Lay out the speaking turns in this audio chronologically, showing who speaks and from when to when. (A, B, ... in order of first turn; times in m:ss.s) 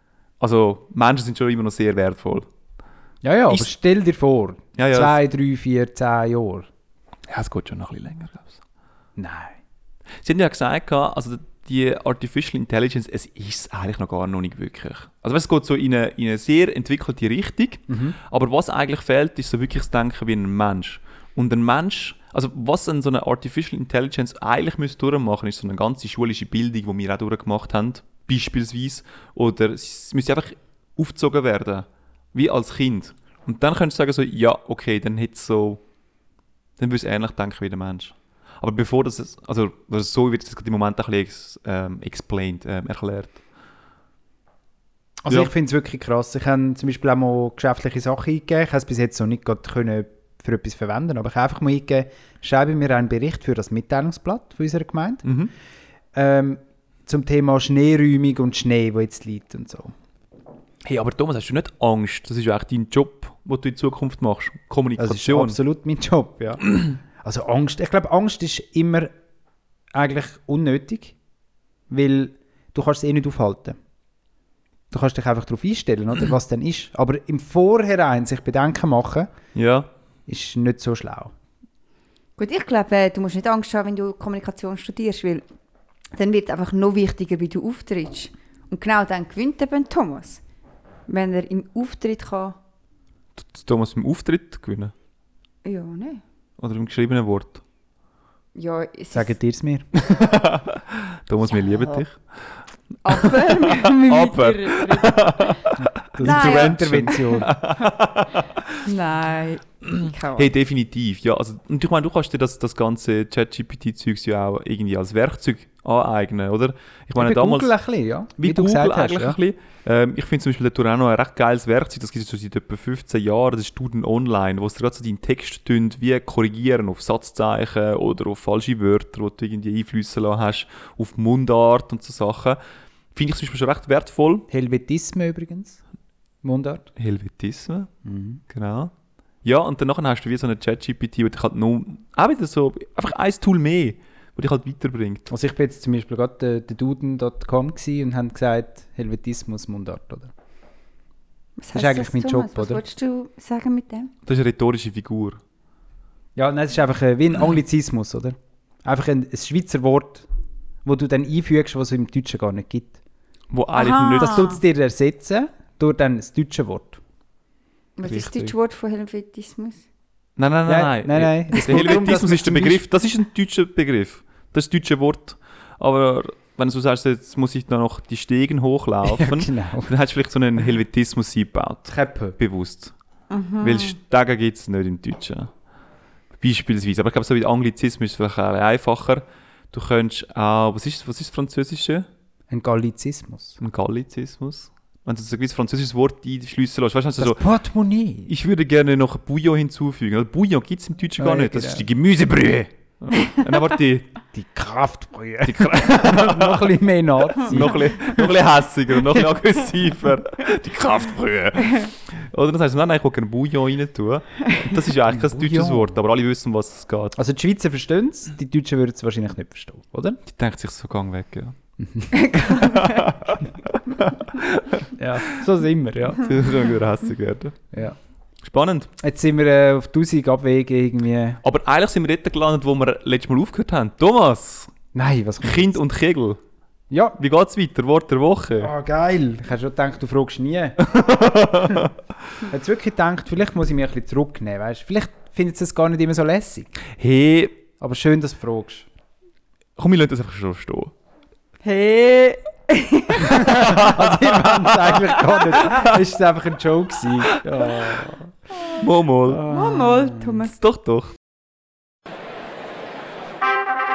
0:00.4-0:02.5 A
0:03.2-0:06.7 B
0:04.8-0:05.2 A
0:07.3-0:08.6 A
0:09.2-0:09.5 B
0:10.2-0:35.8 A
0:17.9-0:18.2 B
0:36.8-0:43.4 A
0:45.2-0:55.2 B
0:55.2-0:55.5 A
0:56.1-0:59.9 B
1:00.8-1:05.6 A
1:05.0-1:09.1 B
1:09.9-1:11.2 B
1:11.9-1:13.8 B
1:14.9-1:19.3 B
1:19.6-1:19.9 A
1:20.3-1:21.3 B
1:22.4-1:25.4 C
1:26.2-1:30.4 C
1:31.1-1:32.6 C
1:33.4-1:34.9 A
1:35.6-1:36.2 C
1:36.6-1:37.6 A
1:38.6-1:39.3 C
1:39.1-1:39.9 B
1:40.0-1:42.2 A
1:43.0-1:45.6 C
1:43.1-1:48.8 A
1:45.8-1:47.5 B
1:46.2-1:47.4 C
1:48.8-1:50.5 C
1:50.4-1:57.7 A
1:57.2-1:59.4 B
1:58.4-2:12.6 A
2:13.2-2:14.5 A
2:14.5-2:15.8 B
2:16.4-2:16.9 B
2:17.0-2:17.9 A
2:18.0-2:18.4 B
2:18.5-2:18.9 A
2:19.4-2:25.3 A
2:25.3-2:30.3 B
2:31.6-2:34.1 C
2:31.7-2:32.8 B
2:34.3-2:35.4 A
2:36.4-2:40.3 B
2:40.8-2:43.0 B
2:43.5-2:44.6 A
2:43.7-2:44.6 C
2:44.2-2:47.0 B
2:48.0-2:49.8 C
2:48.0-2:48.5 A
2:50.4-3:02.9 A
2:50.7-2:52.8 B
2:59.0-2:59.9 B
3:01.9-3:02.4 B
3:03.3-3:04.0 C
3:03.6-3:05.5 A
3:06.4-3:12.1 A
3:12.5-3:13.6 B
3:13.6-3:17.4 A
3:17.2-3:18.3 B
3:18.3-3:24.1 A
3:21.2-3:22.6 B
3:24.3-3:28.4 B
3:25.4-3:26.7 A
3:27.3-3:37.2 A
3:28.9-3:29.3 B
3:35.1-3:35.9 B
3:37.2-3:40.2 B
3:40.3-3:41.6 A
3:41.8-3:42.1 B
3:42.1-3:43.1 C
3:42.6-3:44.9 A
3:45.0-3:46.3 B
3:46.2-3:47.6 A
3:48.4-3:48.9 A
3:49.0-3:51.4 B
3:51.4-3:54.7 A
3:54.9-3:55.8 B
3:55.4-3:56.4 A
3:56.9-3:57.2 B
3:57.2-3:58.7 A
3:58.6-4:01.0 B
4:00.8-4:01.9 A
4:02.5-4:06.7 B
4:07.0-4:07.6 A
4:07.8-4:08.9 B
4:09.8-4:10.9 A
4:11.6-4:13.5 C
4:13.2-4:18.4 B
4:13.4-4:14.9 A
4:15.6-4:15.9 A
4:18.8-4:19.5 A
4:19.2-4:20.4 B
4:19.5-4:20.6 C
4:20.5-4:21.1 A